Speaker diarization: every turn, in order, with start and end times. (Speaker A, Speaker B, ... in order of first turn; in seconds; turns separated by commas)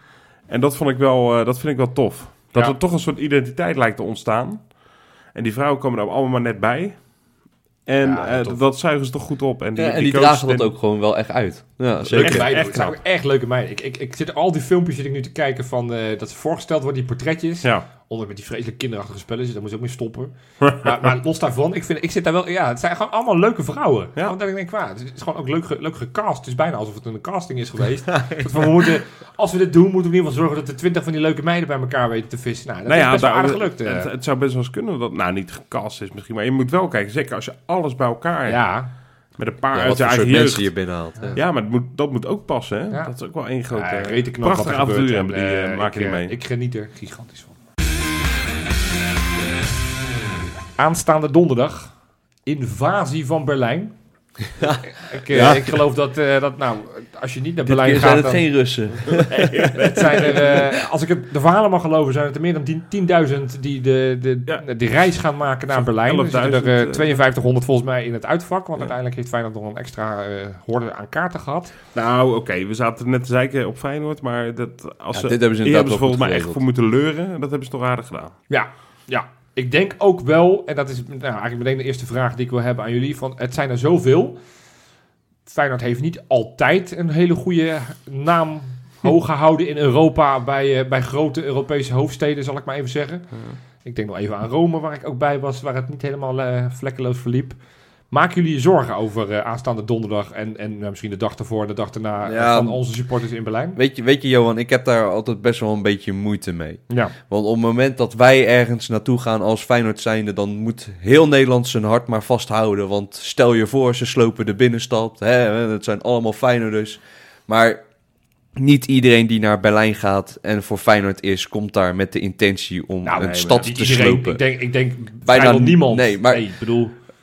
Speaker A: 0.5-4.7, Speaker A: 5.3-7.1, Speaker A: 7.9-10.7, Speaker B: 8.0-8.6, Speaker C: 9.8-12.5, Speaker A: 12.1-13.0, Speaker B: 12.1-34.1, Speaker A: 20.6-20.9, Speaker A: 32.9-38.6, Speaker B: 38.5-38.9, Speaker A: 39.4-40.8, Speaker C: 39.7-41.4, Speaker A: 41.3-46.4, Speaker B: 43.7-47.5, Speaker B: 50.8-51.9, Speaker B: 52.5-53.9, Speaker C: 54.6-55.7, Speaker B: 54.9-58.5, Speaker C: 57.6-59.8, Speaker A: 59.2-60.6, Speaker B: 59.7-71.7, Speaker C: 60.3-60.6, Speaker A: 65.7-67.2, Speaker A: 72.0-78.3, Speaker C: 75.1-76.6, Speaker B: 78.5-84.4, Speaker B: 85.5-93.3, Speaker B: 93.8-97.6, Speaker B: 98.1-103.8, Speaker C: 102.2-102.8, Speaker C: 103.8-117.8, Speaker B: 106.9-107.1, Speaker C: 118.5-124.4, Speaker B: 123.0-127.0, Speaker C: 125.2-126.5